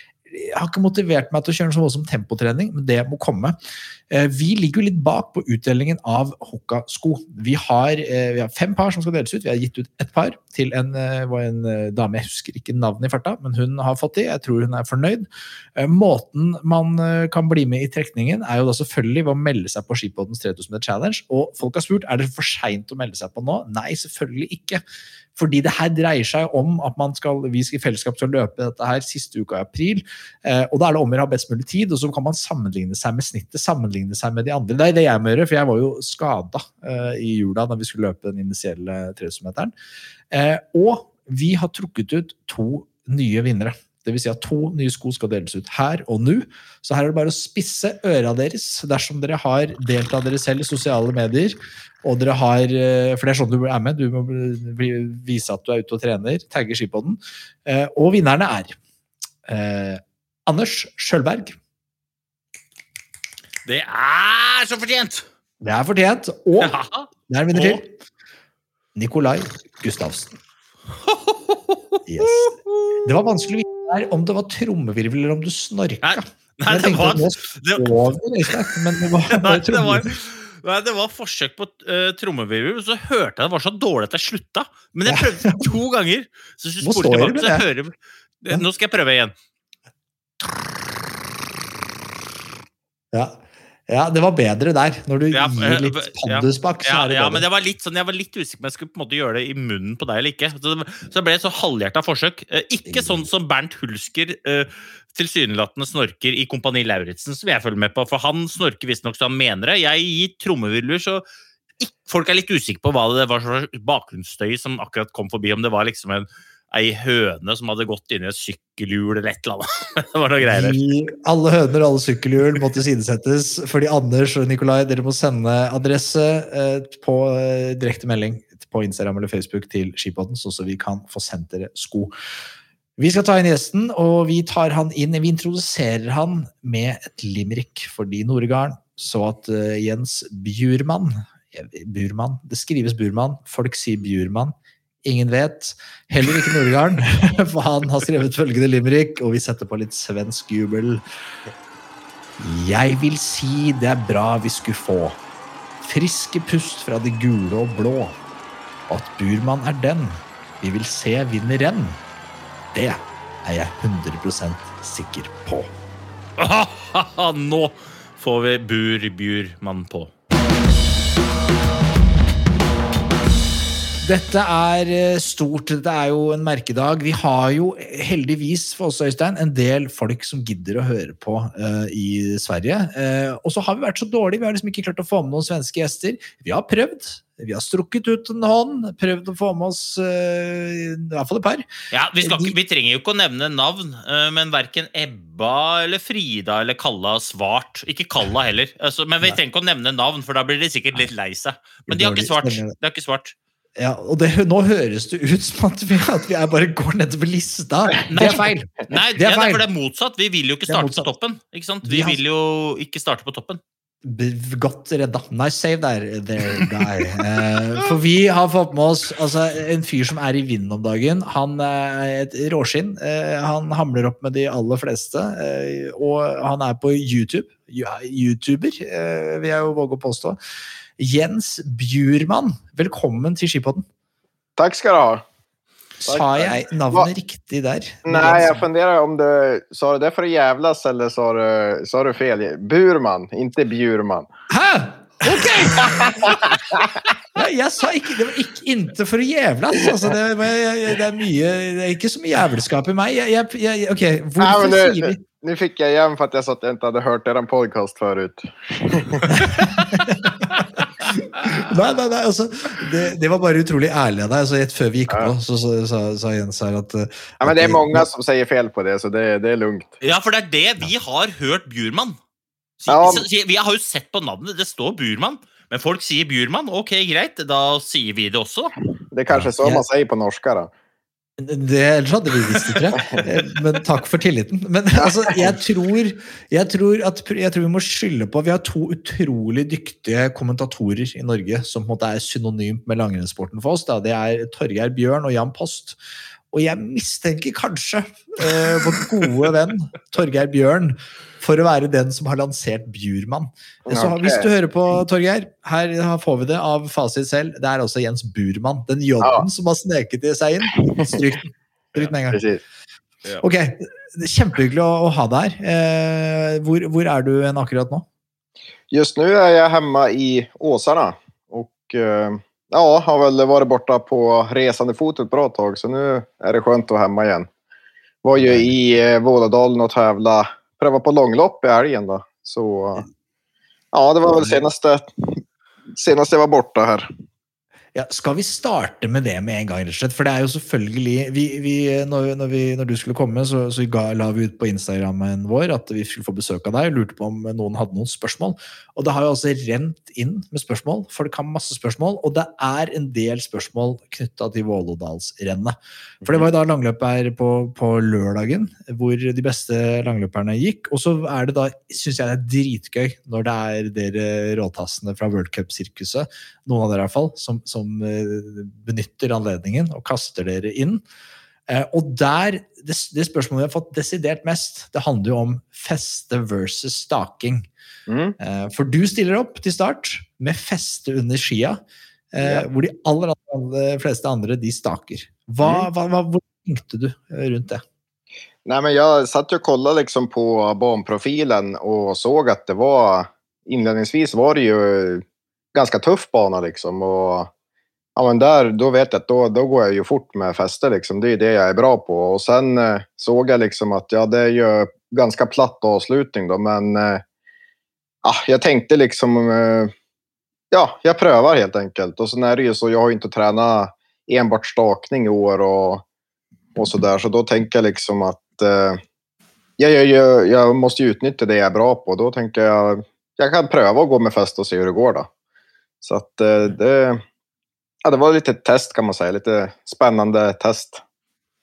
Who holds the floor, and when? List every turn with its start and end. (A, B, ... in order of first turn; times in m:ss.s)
0:00.3-0:03.6 A
0:04.1-0:24.8 A
0:25.4-0:39.7 A
0:40.3-0:58.8 A
0:59.4-1:01.6 A
1:03.6-1:05.2 B
1:05.6-1:06.7 A
1:06.6-1:07.8 B
1:07.3-1:07.9 A
1:08.9-1:10.4 A
1:11.0-1:13.0 B
1:12.1-1:20.1 A
1:16.0-1:18.8 B
1:19.3-1:29.3 B
1:25.0-1:25.6 A
1:26.8-1:27.6 A
1:33.1-1:37.4 A
1:35.3-1:51.2 B
1:42.8-1:43.2 A
1:51.8-2:00.8 B
2:00.4-2:12.1 A
2:13.0-2:31.0 A
2:32.4-2:35.2 A
2:35.8-2:38.2 A
2:38.9-2:42.0 A
2:42.7-2:45.7 A
2:46.4-2:50.1 B
2:54.0-3:11.6 A
3:11.9-3:23.3 B
3:12.2-3:12.5 A
3:21.9-3:22.7 A
3:23.8-3:29.6 A
3:28.1-3:33.6 B
3:30.7-3:31.1 A
3:31.8-3:32.2 A
3:34.0-3:50.4 A
3:51.0-3:53.8 A
3:54.6-3:55.2 C
3:56.0-3:58.6 A
3:56.0-3:57.1 C
3:58.0-4:04.3 C
4:04.5-4:06.3 A
4:05.5-4:06.9 C
4:07.3-4:15.2 A
4:14.4-4:19.5 C
4:19.3-4:28.1 A
4:27.4-4:29.9 C
4:30.0-4:32.2 B
4:32.8-4:38.7 B
4:32.9-4:33.2 C
4:39.1-4:40.7 C
4:39.3-4:39.8 A
4:41.4-4:56.0 A
4:45.0-4:45.4 C
4:56.5-5:12.4 A
5:03.9-5:04.5 C
5:12.3-5:12.6 C
5:13.4-5:18.0 A
5:18.9-5:27.5 C
5:28.2-5:33.0 C
5:28.4-5:28.7 A
5:33.9-5:35.4 C
5:35.9-5:37.1 C
5:37.9-6:11.0 A
6:11.7-6:17.7 A
6:18.1-6:18.4 C
6:18.4-6:21.8 A
6:22.3-6:27.8 A
6:25.6-6:25.9 C
6:28.6-6:35.2 C
6:35.7-6:37.5 C
6:38.2-6:47.2 C
6:48.2-6:49.9 C
6:50.7-6:56.0 C
6:56.7-6:59.0 C
6:59.8-7:05.3 C
7:06.0-7:07.2 C
7:08.0-7:11.0 C